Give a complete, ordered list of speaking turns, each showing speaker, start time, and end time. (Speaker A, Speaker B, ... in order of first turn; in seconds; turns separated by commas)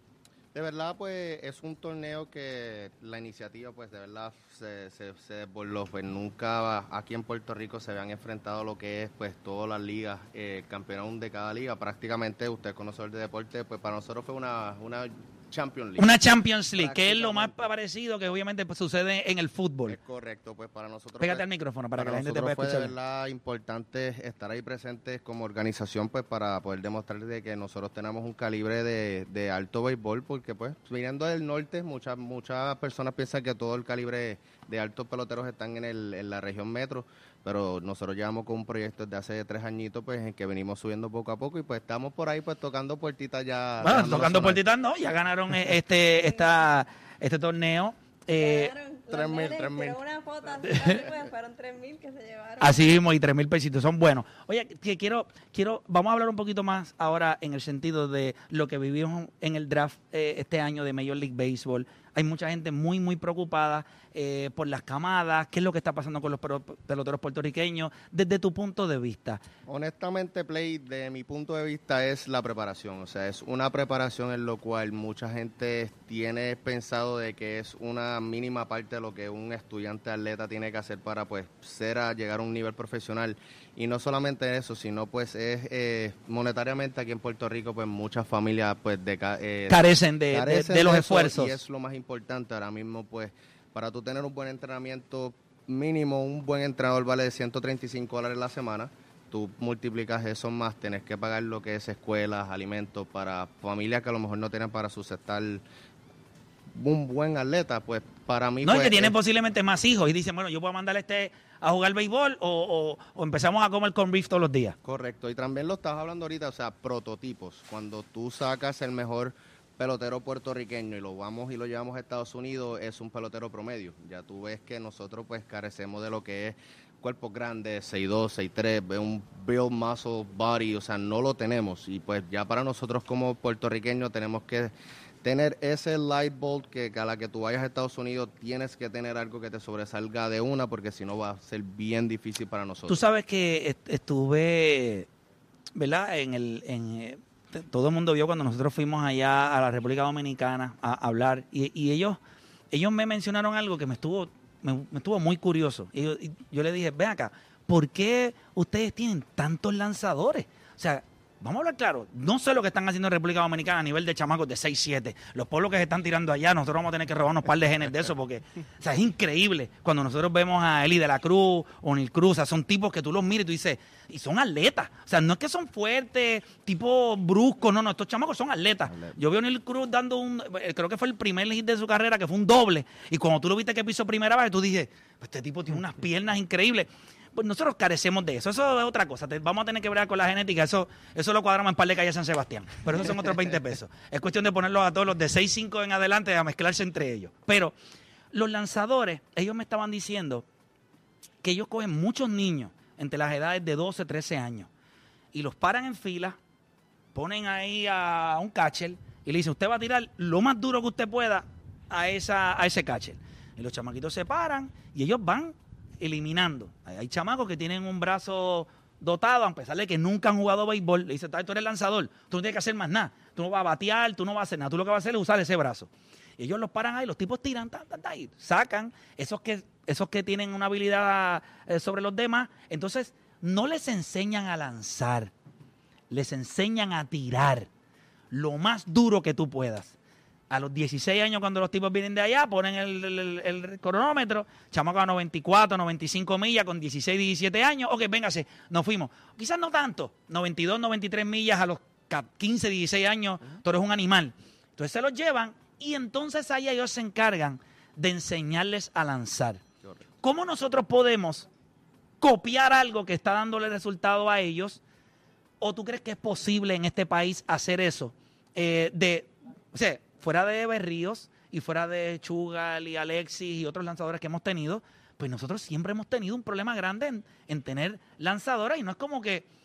Speaker A: 0.5-16.1, Speaker B: 16.0-20.0, Speaker A: 16.7-17.7, Speaker A: 19.9-44.6, Speaker B: 21.2-22.9, Speaker B: 43.8-48.7, Speaker C: 48.4-53.0, Speaker A: 49.1-50.0, Speaker B: 52.6-69.4, Speaker A: 69.7-105.6, Speaker B: 89.7-91.6, Speaker A: 106.7-109.1, Speaker B: 108.6-114.8, Speaker A: 114.8-134.7, Speaker A: 135.2-143.0, Speaker B: 142.9-145.1, Speaker B: 145.7-152.2, Speaker B: 152.7-197.7, Speaker A: 178.9-179.1, Speaker B: 198.3-200.4, Speaker B: 201.4-204.7, Speaker B: 205.3-206.4, Speaker B: 207.1-235.3, Speaker B: 236.1-237.7, Speaker B: 238.3-239.9, Speaker B: 240.5-259.6, Speaker B: 260.2-261.5, Speaker B: 262.2-264.8, Speaker B: 265.6-279.4